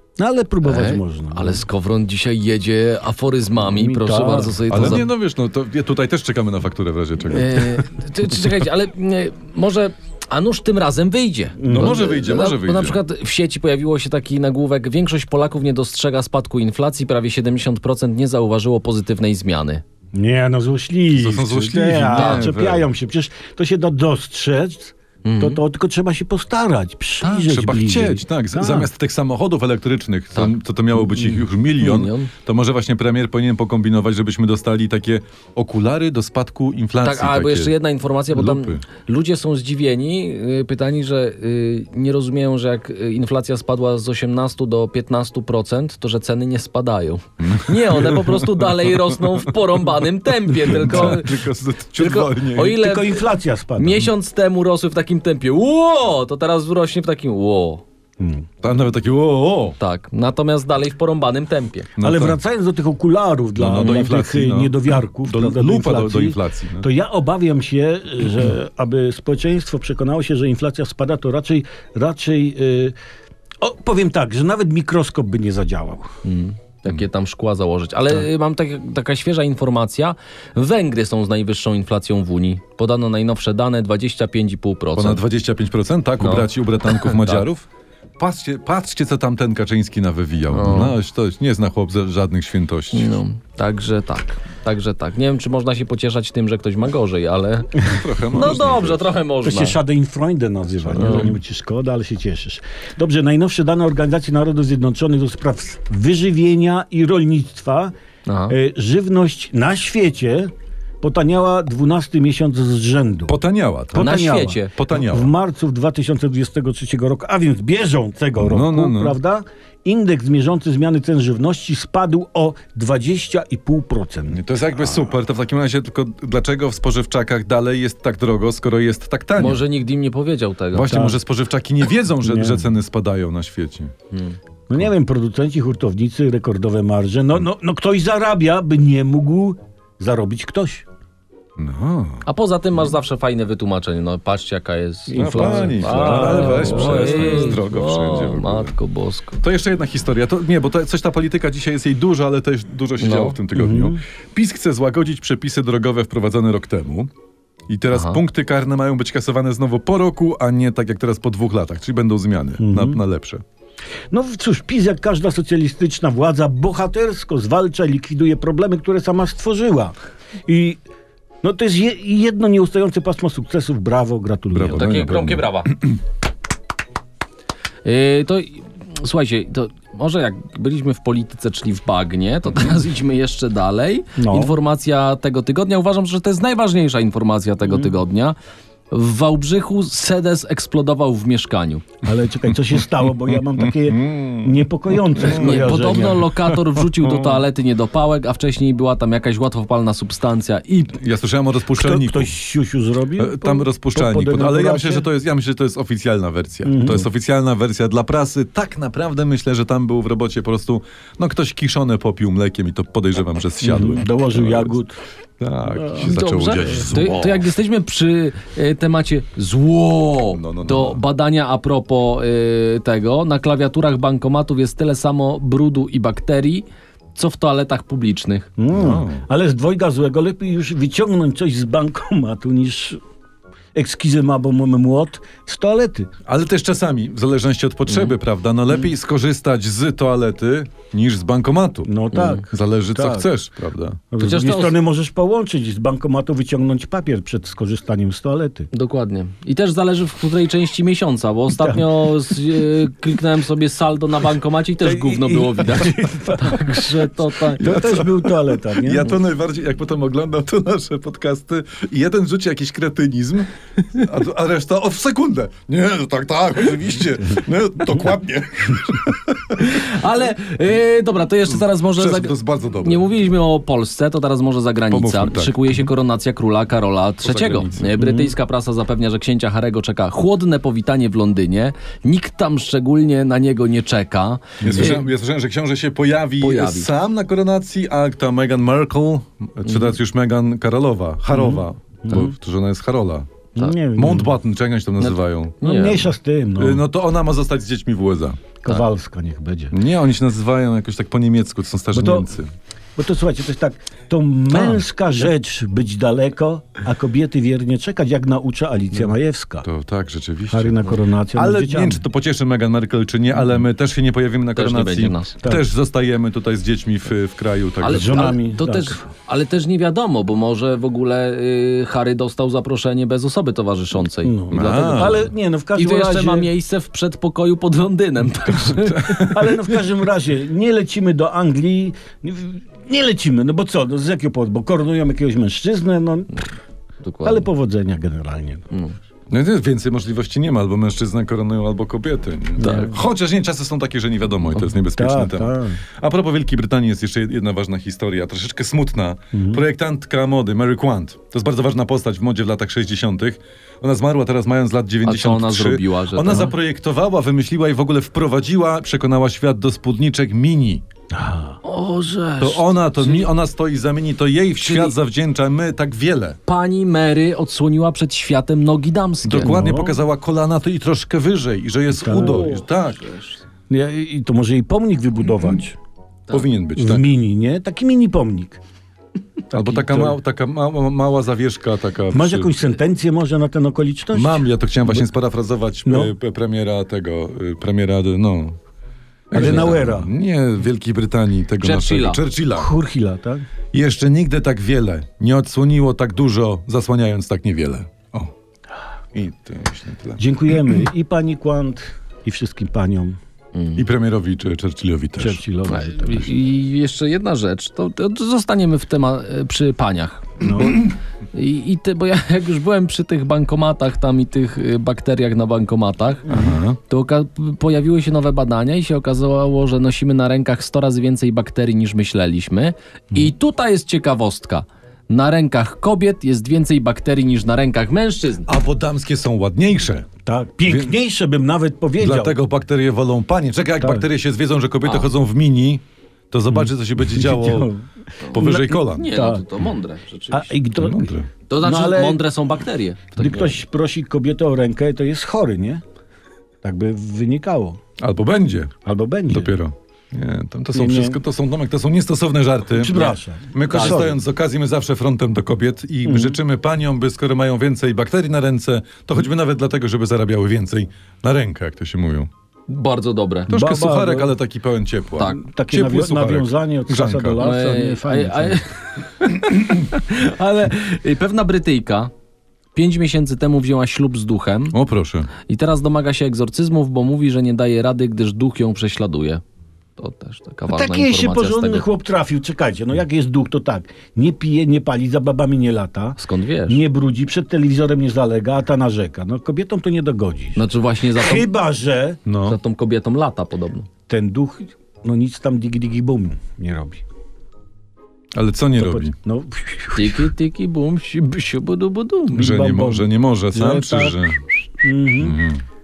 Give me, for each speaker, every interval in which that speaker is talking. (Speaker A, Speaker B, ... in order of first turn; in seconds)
Speaker A: 0.2-1.6, 3.6-5.0, 11.6-12.1, 20.1-28.9, 52.7-54.1, 58.2-58.5, 62.0-73.0, 73.6-76.2, 99.4-107.9, 108.5-113.3, 113.9-125.0, 130.9-131.2, 132.2-132.7, 134.7-140.9, 145.1-147.6, 153.5-154.0, 162.6-163.0, 164.1-169.9, 170.5-170.8, 171.4-175.1, 184.2-184.6, 192.0-196.3, 201.7-205.1, 206.6-207.1, 213.6-215.0, 228.6-233.0, 233.8-236.1, 241.8-243.3, 244.1-248.7, 251.5-252.1, 254.8-259.1, 278.0-278.4, 284.7-285.0, 291.3-292.3, 293.6-294.3, 295.6-296.8, 298.6-299.7, 301.9-302.3, 303.0-309.7, 310.5-312.0, 315.4-315.7, 317.9-319.0, 324.2-326.5, 329.1-336.3, 337.2-338.7, 342.6-342.9, 345.0-345.8, 349.3-349.6, 361.1-361.6, 369.4-370.0, 371.9-372.5, 373.7-375.8, 376.8-378.6, 379.5-380.2, 382.1-385.1, 385.9-386.1, 389.3-390.1, 392.5-393.4, 400.2-403.2, 405.2-406.3, 410.4-410.9, 416.3-416.6, 430.2-432.4, 433.8-434.1, 436.5-439.5, 440.3-442.3, 443.2-445.8, 446.6-447.8, 448.9-449.6, 450.7-451.2, 452.7-454.2, 456.0-456.4, 463.5-464.3, 465.2-468.6, 480.7-492.2, 494.1-497.0, 498.8-500.3, 502.4-504.2, 504.8-505.4
Speaker B: 0.7-5.1, 7.3-19.8, 22.1-22.5, 25.2-25.6, 30.4-32.3, 37.0-53.2, 53.8-57.8, 59.8-61.9, 63.8-64.1, 76.2-85.2, 86.2-87.5, 90.5-91.0, 92.9-99.8, 101.0-101.3, 108.3-108.6, 114.0-114.7, 129.4-131.0, 134.1-134.4, 142.3-149.4, 153.0-153.4, 157.9-158.2, 174.7-175.7, 177.8-188.4, 188.9-191.9, 195.2-201.0, 215.9-226.7, 227.2-228.5, 237.9-238.1, 242.2-242.4, 244.2-244.8, 248.7-257.7, 269.6-285.1, 286.4-286.9, 289.7-289.9, 295.0-296.1, 314.6-315.4, 317.8-329.6, 337.0-337.5, 342.6-342.9, 355.1-356.5, 361.6-363.3, 364.6-364.9, 366.5-369.6, 372.1-373.4, 389.4-389.7, 391.6-392.2, 403.6-403.8, 405.7-428.5, 434.8-435.1, 438.2-440.6, 441.5-443.6, 453.7-454.0, 462.7-463.5, 467.4-472.1, 472.8-474.8, 475.4-479.4, 480.0-481.9, 486.2-486.8, 490.6-491.5, 492.4-493.9, 499.9-502.5
Speaker C: 4.7-7.9, 11.6-13.0, 21.2-22.9, 27.2-37.7, 38.3-38.8, 47.4-49.4, 50.6-52.8, 58.6-59.8, 62.0-62.4, 63.6-66.9, 85.0-87.7, 88.2-93.2, 97.8-99.1, 100.9-101.3, 113.3-115.3, 118.4-119.2, 124.3-129.6, 130.7-133.9, 141.6-142.3, 145.2-148.8, 149.4-157.1, 157.7-163.4, 174.5-175.9, 193.1-197.4, 200.9-202.3, 203.2-214.8, 215.4-217.4, 220.3-221.0, 228.7-229.3, 236.3-244.0, 257.6-269.7, 272.0-273.1, 274.9-275.9, 277.2-277.9, 284.6-293.3, 293.9-295.6, 296.6-298.4, 299.7-302.5, 309.6-318.4, 324.5-325.3, 328.8-329.5, 339.3-360.8, 362.4-366.4, 369.2-373.0, 376.3-377.1, 379.5-382.6, 384.1-388.6, 389.3-392.7, 393.7-398.3, 399.1-400.8, 403.8-405.4, 416.3-416.8, 428.5-430.1, 430.7-430.9, 432.0-437.7, 438.3-439.1, 440.8-441.3, 448.0-448.7, 449.3-462.3, 463.5-467.4, 474.7-475.3, 492.3-492.6, 498.4-499.1, 502.3-504.4, 505.2-505.6